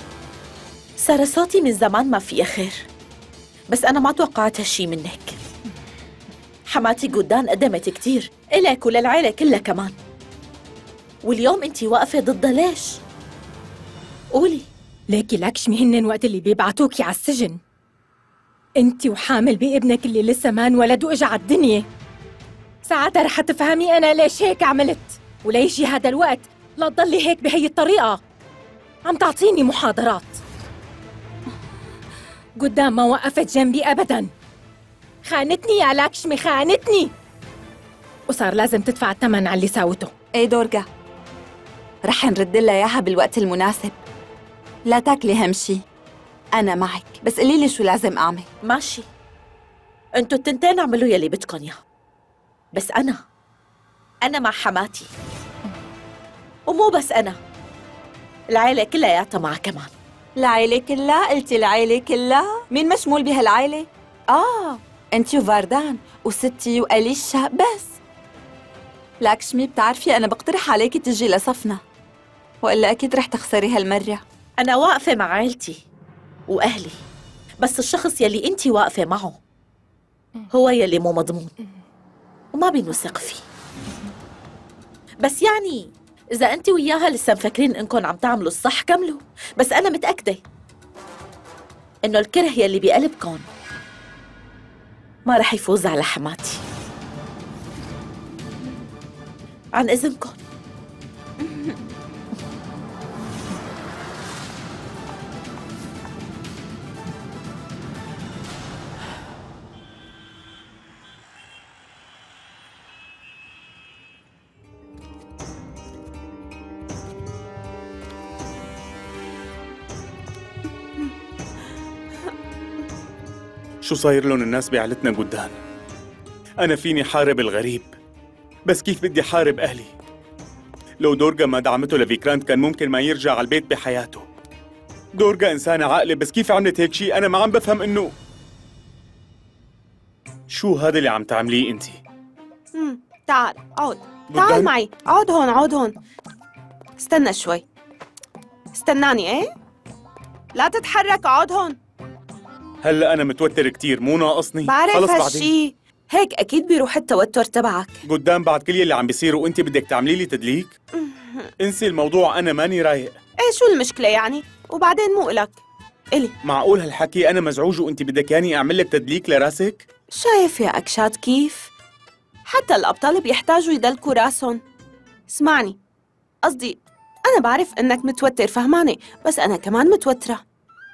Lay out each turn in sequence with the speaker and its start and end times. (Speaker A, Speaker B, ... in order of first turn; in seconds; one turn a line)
Speaker A: 1.0-2.9
Speaker A: 3.7-5.4
Speaker A: 6.7-9.9
Speaker A: 11.2-13.0
Speaker A: 14.3-14.7
Speaker B: 15.1-17.6
Speaker B: 18.8-21.9
Speaker B: 22.8-28.2
Speaker B: 29.1-30.4
Speaker B: 32.6-34.3
Speaker B: 35.2-37.1
Speaker B: 38.3-40.1
Speaker C: 40.4-40.9
Speaker C: 42.0-43.9
Speaker C: 44.9-45.8
Speaker C: 46.5-48.5
Speaker A: 48.6-49.0
Speaker A: 50.1-51.8
Speaker A: 52.7-53.2
Speaker A: 54.2-55.1
Speaker A: 56.7-57.4
Speaker A: 58.5-59.9
Speaker C: 60.4-68.0
Speaker C: 69.2-71.8
Speaker C: 72.6-74.2
Speaker A: 74.6-75.8
Speaker A: 76.5-77.0
Speaker A: 77.6-79.4
Speaker A: 80.5-81.5
Speaker A: 82.5-83.4
Speaker A: 85.2-90.4
Speaker A: 92.0-93.5
Speaker A: 95.2-96.6
Speaker A: 99.8-100.4
Speaker D: 123.8-125.6
Speaker D: 126.6-127.9
Speaker D: 128.7-129.9
Speaker D: 131.0-134.3
Speaker D: 135.2-138.1
Speaker D: 140.5-142.0
Speaker E: 142.7-145.9
Speaker D: 144.3-144.7
Speaker E: 147.0-147.6
Speaker E: 148.7-149.4
Speaker E: 150.5-151.8
Speaker D: 152.8-155.5
Speaker E: 154.6-158.0
Speaker D: 158.1-160.7
Speaker E: 160.9-161.5
Speaker D: 161.6-163.2
Speaker E: 163.4-165.6
Speaker D: 166.4-169.8
Speaker E: 170.1-171.7
Speaker E: 172.5-174.6
Speaker E: 175.3-175.8
Speaker E: 176.4-180.4